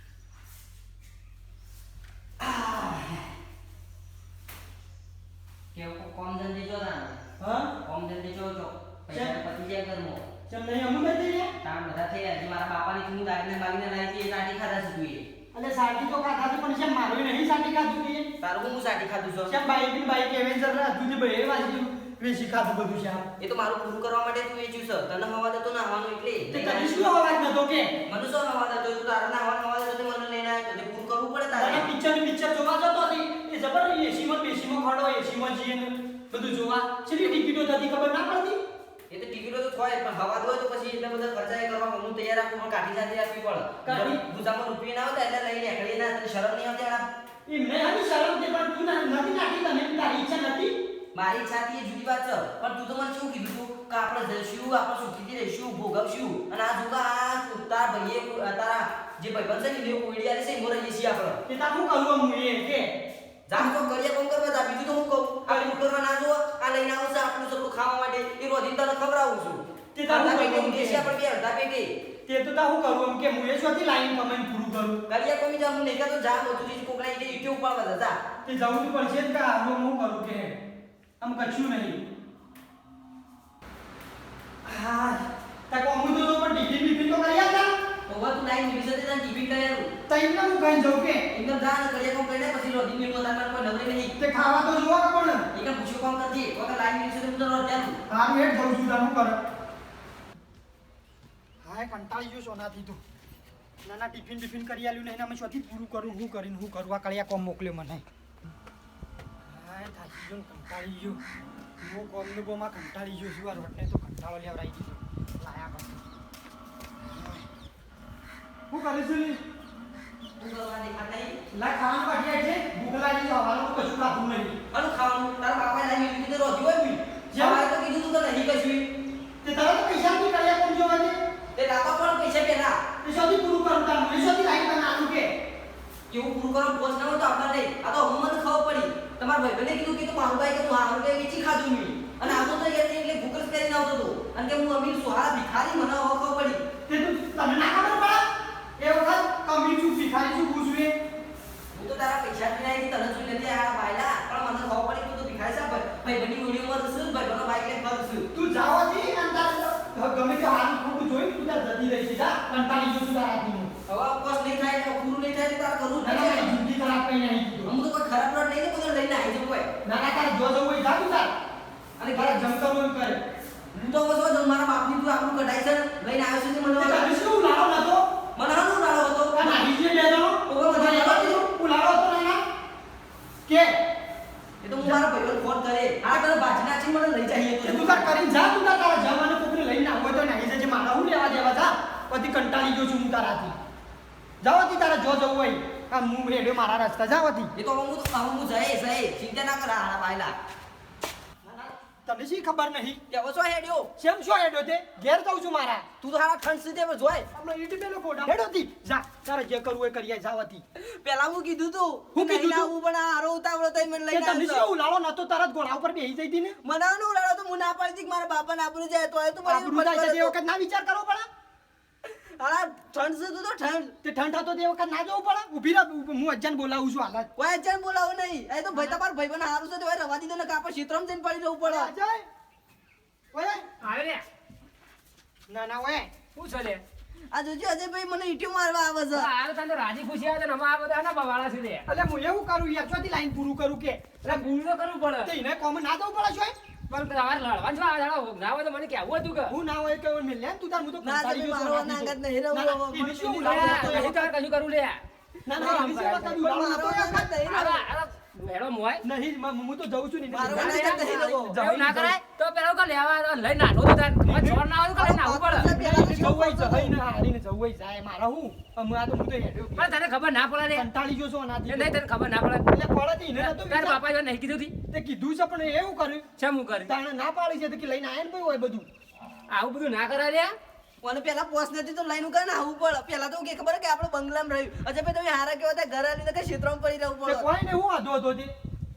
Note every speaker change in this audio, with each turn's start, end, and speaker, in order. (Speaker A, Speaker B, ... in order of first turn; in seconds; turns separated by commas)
Speaker A: 2.4-3.2, Speaker A: 5.7-7.2, Speaker B: 7.4-7.7, Speaker A: 7.8-10.2, Speaker B: 9.1-9.4, Speaker B: 10.5-11.5, Speaker A: 11.6-15.3, Speaker B: 15.5-18.3, Speaker A: 18.4-19.6, Speaker B: 19.5-23.3, Speaker A: 23.4-27.1, Speaker B: 26.5-27.9, Speaker A: 28.0-31.9, Speaker B: 31.5-38.6, Speaker A: 39.1-47.1, Speaker B: 43.8-44.2, Speaker B: 47.5-50.8, Speaker A: 51.1-61.4, Speaker B: 61.5-62.9, Speaker A: 63.5-71.9, Speaker B: 65.5-65.8, Speaker B: 69.9-71.1, Speaker B: 72.2-75.0, Speaker A: 75.1-78.2, Speaker B: 78.4-80.5, Speaker B: 81.2-82.0, Speaker B: 84.6-87.7, Speaker A: 88.1-89.9, Speaker B: 90.1-91.2, Speaker A: 91.3-94.2, Speaker B: 94.2-95.5, Speaker A: 95.5-98.0, Speaker B: 98.1-99.4, Speaker B: 101.6-103.0, Speaker B: 103.8-108.0, Speaker B: 109.4-111.2, Speaker B: 111.8-116.0, Speaker B: 117.0-117.5, Speaker B: 118.7-119.4, Speaker A: 120.4-121.4, Speaker B: 121.5-124.5, Speaker A: 124.7-128.9, Speaker B: 127.3-127.7, Speaker B: 129.4-131.2, Speaker A: 131.5-132.8, Speaker B: 133.0-135.3, Speaker A: 136.1-146.6, Speaker B: 142.2-142.5, Speaker B: 146.9-148.2, Speaker B: 148.8-150.9, Speaker A: 151.7-158.3, Speaker B: 158.3-163.7, Speaker A: 163.9-166.6, Speaker B: 166.0-167.7, Speaker A: 167.7-169.7, Speaker B: 169.8-171.3, Speaker A: 172.0-172.4, Speaker B: 172.0-173.2, Speaker A: 173.7-177.1, Speaker B: 176.8-178.1, Speaker A: 178.3-179.6, Speaker B: 179.3-182.4, Speaker A: 180.5-181.4, Speaker B: 183.5-183.8, Speaker A: 184.6-188.1, Speaker B: 184.8-185.1, Speaker B: 187.6-193.6, Speaker B: 194.4-197.5, Speaker A: 197.6-200.3, Speaker B: 201.4-203.0, Speaker A: 203.1-203.9, Speaker B: 204.0-205.8, Speaker A: 206.0-207.3, Speaker B: 207.3-210.6, Speaker A: 210.8-214.7, Speaker B: 212.1-212.7, Speaker B: 214.1-216.6, Speaker A: 216.6-220.3, Speaker B: 219.4-221.3, Speaker A: 222.0-223.9, Speaker B: 224.0-227.3, Speaker A: 227.4-231.9, Speaker B: 231.6-232.3, Speaker B: 233.3-233.7, Speaker C: 233.8-234.2, Speaker B: 235.5-236.1, Speaker C: 236.3-236.8, Speaker A: 237.3-239.3, Speaker C: 239.1-241.9, Speaker B: 241.8-244.5, Speaker C: 244.2-245.3, Speaker B: 245.2-246.6, Speaker C: 246.9-249.6, Speaker B: 249.5-254.3, Speaker A: 251.0-254.1, Speaker C: 253.1-255.0, Speaker B: 255.4-257.4, Speaker C: 255.5-256.4, Speaker A: 255.5-257.8, Speaker C: 257.4-259.0, Speaker B: 259.0-262.2, Speaker A: 260.3-261.6, Speaker C: 260.4-265.7, Speaker B: 264.2-264.6, Speaker A: 264.9-266.9, Speaker B: 265.7-270.0, Speaker C: 269.8-270.9, Speaker B: 270.7-271.9, Speaker C: 271.6-272.7, Speaker B: 272.6-274.0, Speaker C: 273.4-274.7, Speaker B: 274.9-276.2, Speaker C: 276.4-276.9, Speaker B: 276.8-278.9, Speaker C: 279.5-280.5, Speaker A: 281.0-287.5, Speaker B: 287.2-288.5